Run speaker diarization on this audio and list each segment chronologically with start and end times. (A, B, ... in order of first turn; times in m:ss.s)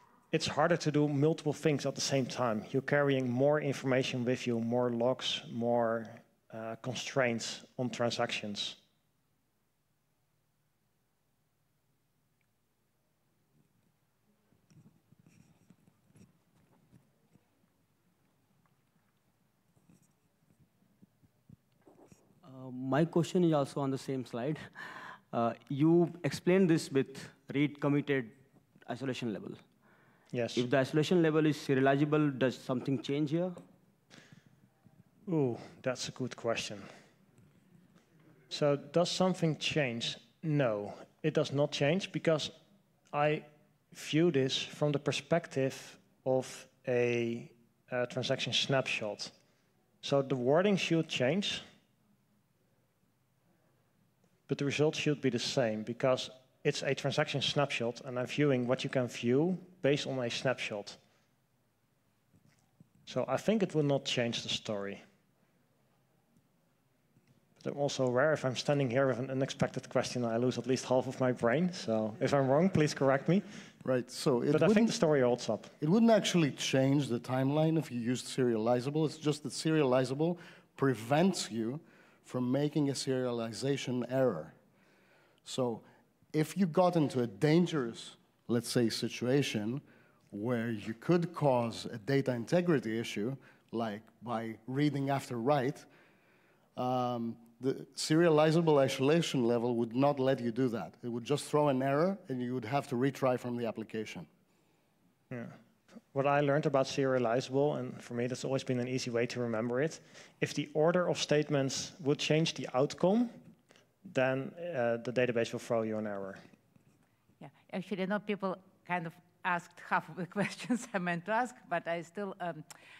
0:00.3-0:08.8 A
0:22.4-0:28.3 B
0:28.8-0:29.6 B
0:30.3-0:30.6 A
0:30.5-0:33.6 B
0:35.3-0:36.9 A
0:38.5-0:42.5 A
0:43.1-0:49.3 A
0:50.0-0:51.6 A
0:54.5-1:01.0 A
1:03.0-1:05.0 A
1:07.6-1:13.6 A
1:13.8-1:15.0 C
1:14.5-1:15.7 A
1:15.8-1:24.5 C
1:25.4-1:35.9 C
1:36.8-1:44.3 C
1:45.3-1:45.6 A
1:46.1-1:53.4 A
1:54.0-1:56.4 A
1:57.4-2:02.7 D